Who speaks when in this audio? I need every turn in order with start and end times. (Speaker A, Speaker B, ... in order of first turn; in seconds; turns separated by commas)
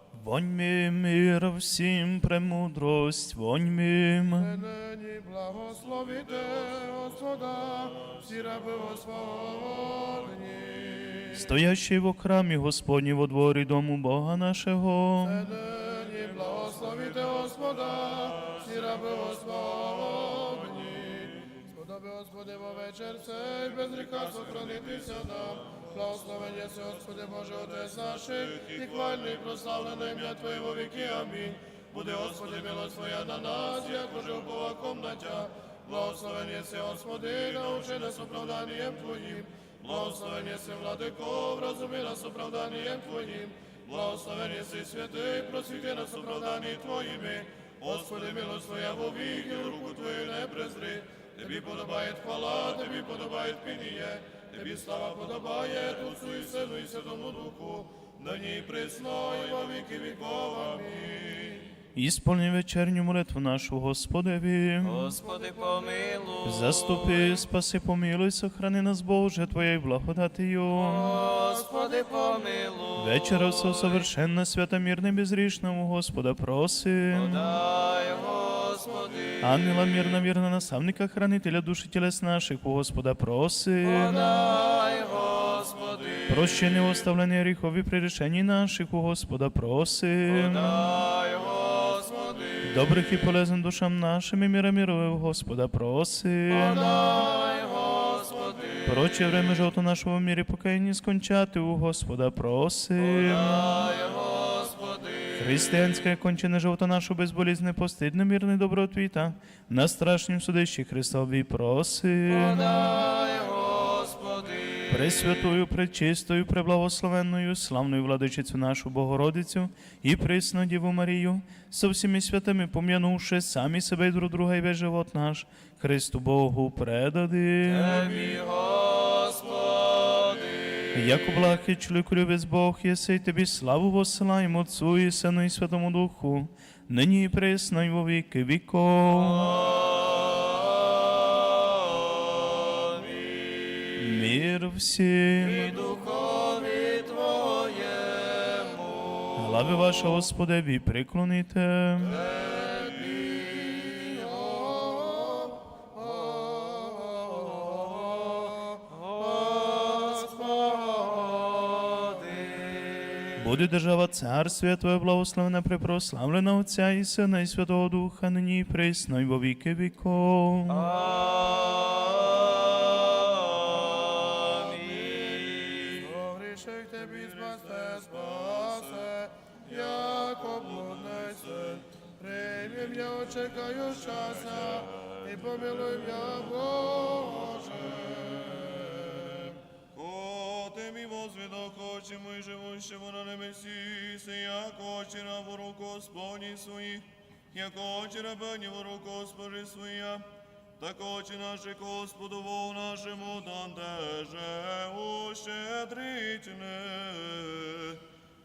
Speaker A: 0.1-4.7, Speaker B: 4.3-11.5, Speaker A: 11.3-15.6, Speaker B: 15.2-61.7, Speaker C: 54.6-55.5, Speaker A: 62.0-65.2, Speaker D: 64.8-67.4, Speaker A: 66.4-71.3, Speaker D: 70.8-74.0, Speaker A: 73.0-77.6, Speaker D: 77.1-79.8, Speaker A: 79.4-84.4, Speaker D: 83.8-87.0, Speaker A: 86.3-91.0, Speaker D: 90.3-93.2, Speaker A: 92.6-97.2, Speaker D: 96.5-99.5, Speaker A: 98.8-103.9, Speaker D: 103.0-105.7, Speaker A: 105.4-112.9, Speaker D: 112.3-115.3, Speaker A: 114.9-128.3, Speaker D: 127.6-130.9, Speaker A: 130.9-139.6, Speaker D: 139.1-144.3, Speaker A: 144.0-145.8, Speaker D: 145.4-149.9, Speaker A: 149.3-152.2, Speaker B: 152.2-158.6, Speaker D: 156.5-157.8, Speaker D: 158.9-163.5, Speaker A: 163.4-170.9, Speaker D: 170.7-176.1, Speaker B: 176.0-189.5, Speaker C: 189.9-200.2, Speaker C: 200.8-208.0